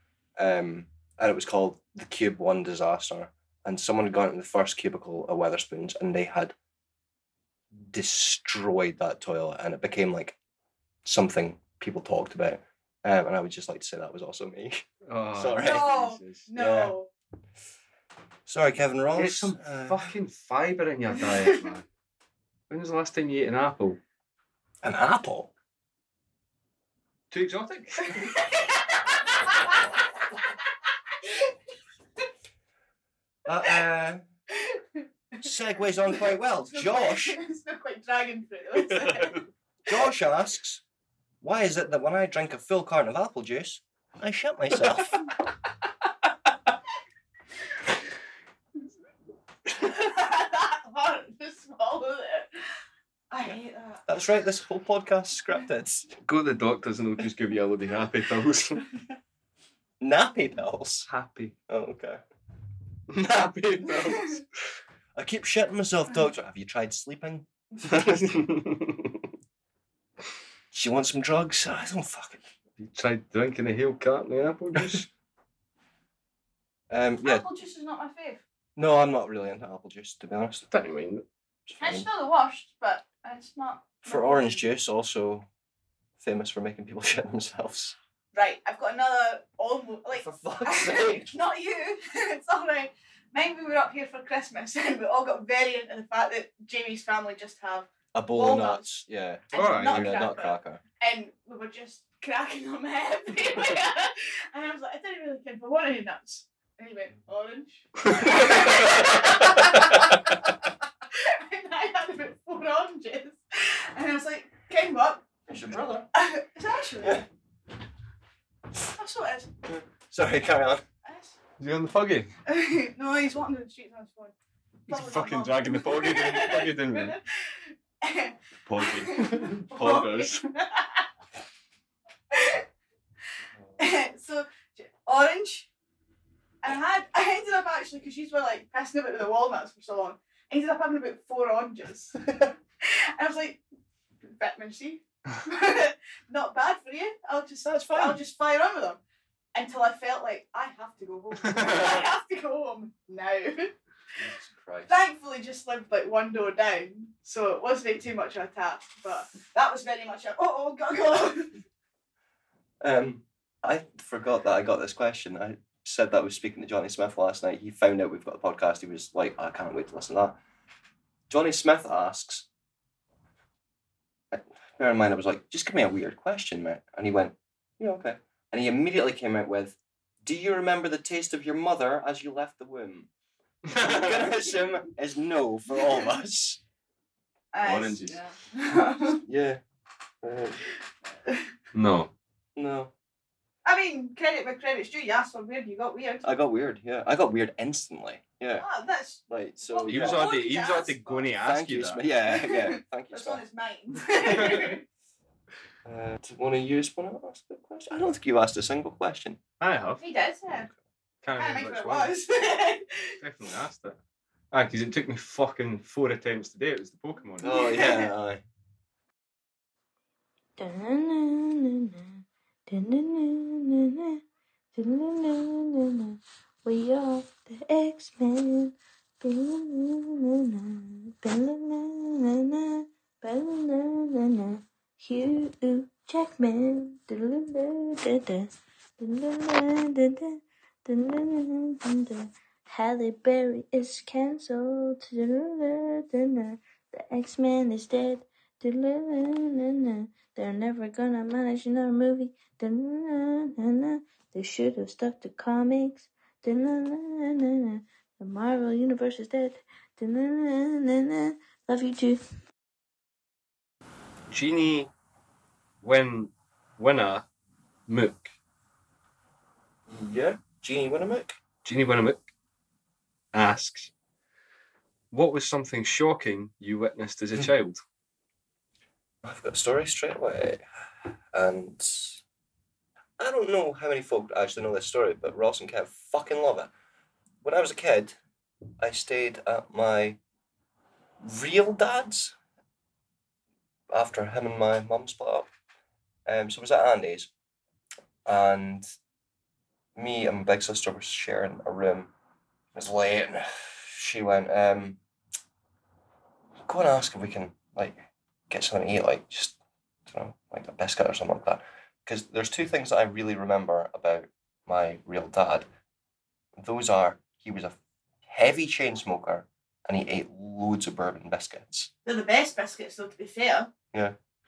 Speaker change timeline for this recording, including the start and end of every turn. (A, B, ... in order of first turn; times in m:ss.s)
0:00.4-0:06.5 A
0:07.9-0:10.4 A
0:11.0-0:16.0 A
0:15.0-0:16.5 B
0:15.6-0:17.1 C
0:16.5-0:16.9 A
0:18.4-0:20.1 A
0:19.2-0:21.8 B
0:22.7-0:24.0 B
0:24.8-0:25.5 A
0:27.3-0:28.4 B
0:28.2-0:29.7 C
0:31.2-0:31.5 C
0:33.4-0:34.2 A
0:34.5-0:35.4 C
0:35.4-0:37.4 A
0:36.2-0:39.4 C
0:39.8-0:40.8 A
0:41.4-0:45.3 A
0:49.7-0:52.5 C
0:53.3-0:54.0 C
0:54.1-0:56.1 A
0:56.2-0:58.8 B
1:00.0-1:01.1 A
1:01.1-1:01.5 B
1:01.7-1:02.2 A
1:03.1-1:04.4 B
1:05.1-1:08.1 A
1:08.0-1:09.1 B
1:10.7-1:12.4 A
1:12.8-1:15.1 B
1:16.9-1:17.4 A
1:17.2-1:18.4 C
1:18.8-1:20.7 A
1:20.7-1:21.2 B
1:21.7-1:22.0 A
1:21.8-1:24.6 C
1:24.0-1:25.5 A
1:26.2-1:28.0 A
1:28.3-1:38.9 C
1:30.1-1:31.3 A
1:38.1-1:40.8 A
1:39.5-1:50.5 C
1:39.5-1:40.3 B
1:51.1-1:55.2 C
1:55.5-1:56.1 A
1:56.1-1:57.2 C
1:58.9-1:59.5 C
1:59.6-2:00.8 A
2:01.0-2:01.4 C
2:01.6-2:02.3 B
2:02.4-2:04.3 C
2:04.9-2:07.2 B
2:04.9-2:11.0 C
2:08.7-2:10.4 B
2:12.3-2:12.6 C
2:13.8-2:15.7 C
2:16.6-2:23.6 C
2:24.2-2:29.0 C
2:27.6-2:28.2 A
2:29.5-2:33.7 C
2:34.2-2:34.9 A
2:34.9-2:41.5 C
2:42.8-2:50.4 A
2:51.3-2:52.4 A
2:54.3-3:03.1 A
3:03.7-3:04.2 B
3:03.7-3:06.6 A
3:07.5-3:09.2 C
3:07.6-3:08.2 B
3:09.2-3:09.6 A
3:10.2-3:10.6 A
3:11.7-3:12.1 B
3:12.6-3:12.9 A
3:13.6-3:16.2 C
3:16.2-3:18.6 A
3:18.6-3:21.3 C
3:19.3-3:20.2 A
3:19.9-3:22.0 B
3:21.4-3:23.4 A
3:22.2-3:24.8 C
3:24.3-3:24.7 B
3:24.3-3:24.6 A
3:25.8-3:29.4 A
3:29.6-3:30.0 B
3:30.0-3:30.7 C
3:31.2-3:32.1 B
3:31.4-3:33.2 C
3:33.2-3:34.0 B
3:34.5-3:37.6 B
3:37.4-3:38.4 A
3:37.4-3:38.1 C
3:40.6-3:44.2 D
3:44.7-4:22.2 D
4:24.3-4:24.9 B
4:25.8-4:27.2 B
4:27.9-4:28.3 B
4:29.9-4:31.4 A
4:31.6-4:32.2 B
4:33.3-4:33.9 B
4:35.1-4:37.8 B
4:39.2-4:40.6 A
4:41.3-4:42.2 A
4:43.2-4:46.7 A
4:47.4-4:48.2 A
4:48.8-4:50.2 A
4:51.2-4:52.3 A
4:53.9-4:55.5 A
4:56.2-4:57.3 A
4:58.2-4:58.9 A
5:00.0-5:02.1 A
5:02.7-5:05.0 A
5:06.7-5:15.7 A
5:16.6-5:21.9 A
5:22.0-5:23.7 C